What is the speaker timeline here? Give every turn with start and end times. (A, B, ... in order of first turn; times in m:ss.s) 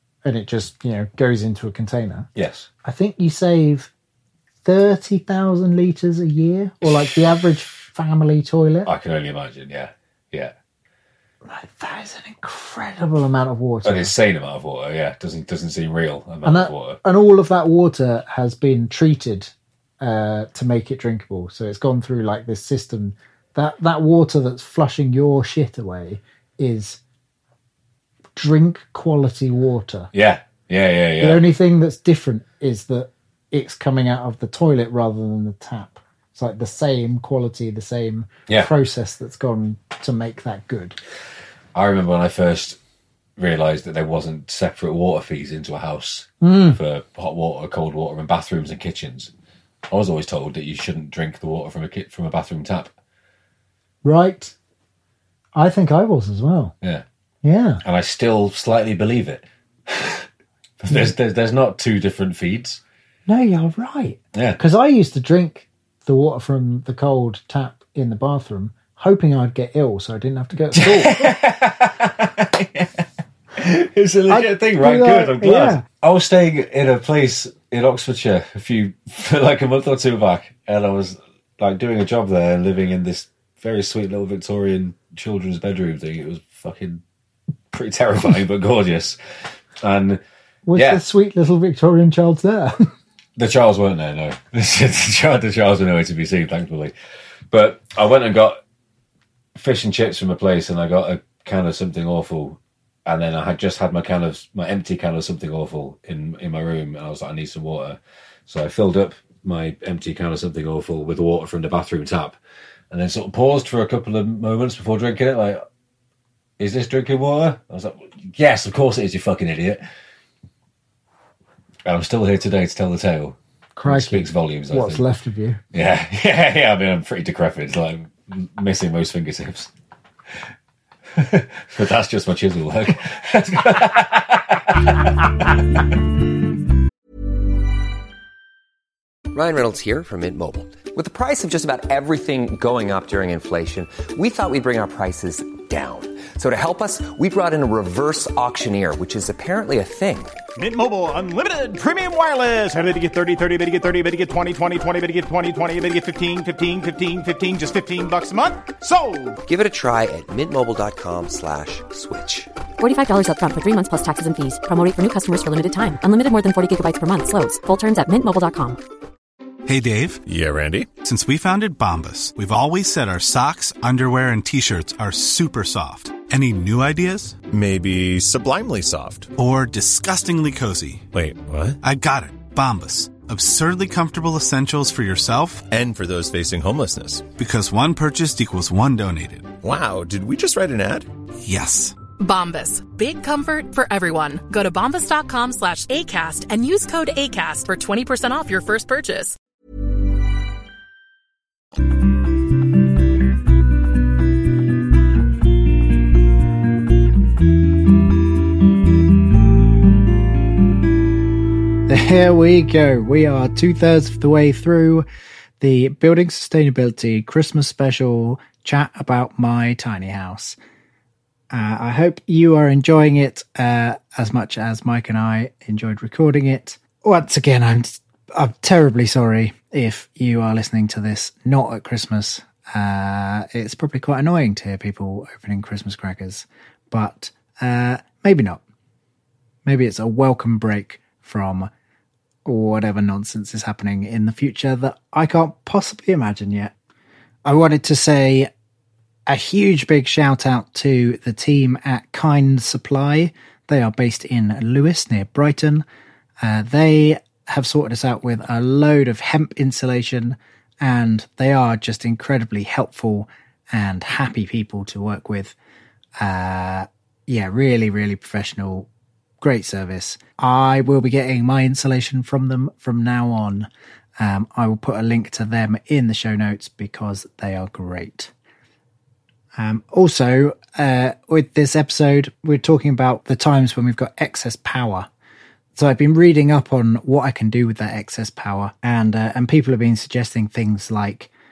0:00.2-0:02.3 A
0:02.4-0:02.7 B
0:02.8-0:03.9 A
0:04.6-0:08.9 A
0:08.8-0:10.5 B
0:11.4-0:14.1 A
0:13.8-0:17.0 B
0:16.4-0:27.0 A
0:28.4-0:30.1 A
0:30.1-0:31.4 B
0:31.2-0:41.0 A
0:41.7-0:42.8 B
0:43.4-0:49.3 B
0:46.4-0:46.8 A
0:49.9-0:52.9 B
0:54.0-0:54.5 A
0:55.6-0:56.7 A
0:57.4-0:57.8 A
0:57.8-1:00.3 B
1:00.8-1:02.8 B
1:03.3-1:11.3 A
1:04.3-1:04.6 B
1:10.7-1:27.0 B
1:14.3-1:15.8 A
1:27.7-1:29.2 B
1:29.8-1:30.2 B
1:30.7-1:32.9 A
1:30.7-1:31.0 B
1:33.4-1:36.9 B
1:37.5-1:38.6 B
1:39.6-1:52.4 B
1:52.9-1:55.6 B
1:56.6-1:59.8 B
2:01.8-2:05.0 B
2:03.8-2:05.6 A
2:05.7-2:09.7 B
2:11.1-2:15.6 B
2:19.3-2:30.4 C
2:30.6-2:39.4 D
2:39.4-2:42.5 C
2:42.8-2:48.8 E
2:49.7-2:50.2 F
2:50.2-2:51.0 G
2:51.0-2:57.4 F
2:57.4-2:59.3 G
2:59.4-3:01.0 F
3:01.1-3:01.8 G
3:01.8-3:05.6 F
3:05.6-3:07.4 G
3:07.4-3:09.5 F
3:09.6-3:11.1 G
3:11.4-3:11.9 F
3:12.2-3:19.4 H
3:31.9-3:35.1 A
3:35.6-3:40.6 A
3:41.5-3:58.6 A
3:59.7-4:01.7 A
4:02.4-4:06.7 A
4:07.4-4:08.5 A
4:09.3-4:15.8 A
4:16.4-4:25.6 A
4:26.2-4:28.9 A
4:29.4-4:33.7 A
4:34.2-4:38.3 A
4:39.6-4:45.1 A
4:45.8-4:51.3 A